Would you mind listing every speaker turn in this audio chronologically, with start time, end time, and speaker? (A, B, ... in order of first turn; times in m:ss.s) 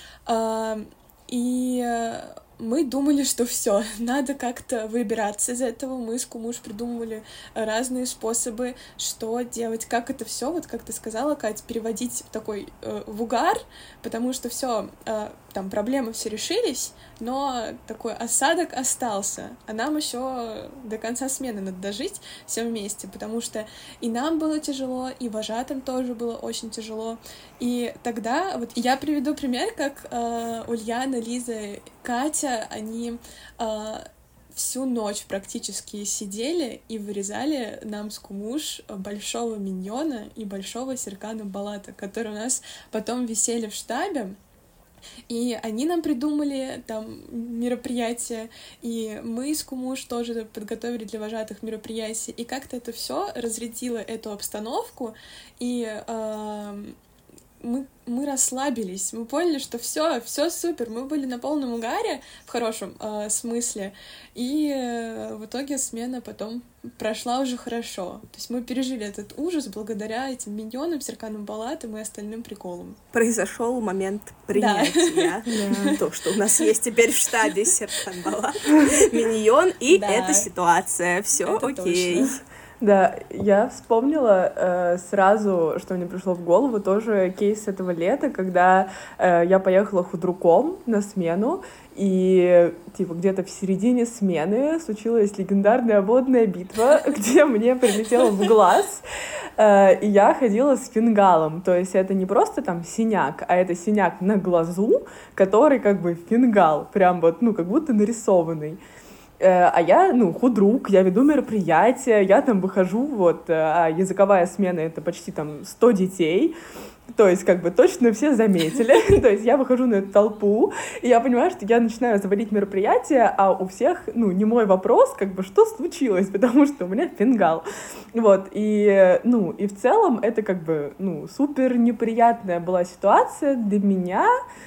0:00.3-0:44.4 A
0:45.3-0:57.0 A
0:57.6-1:13.0 A
1:13.1-1:22.4 B
1:14.5-1:16.0 A
1:15.5-1:16.0 C
1:19.9-1:20.5 A
1:21.4-1:22.4 A
1:22.8-1:39.0 C
1:39.6-1:48.8 C
1:49.4-1:56.6 C
1:57.1-2:14.3 C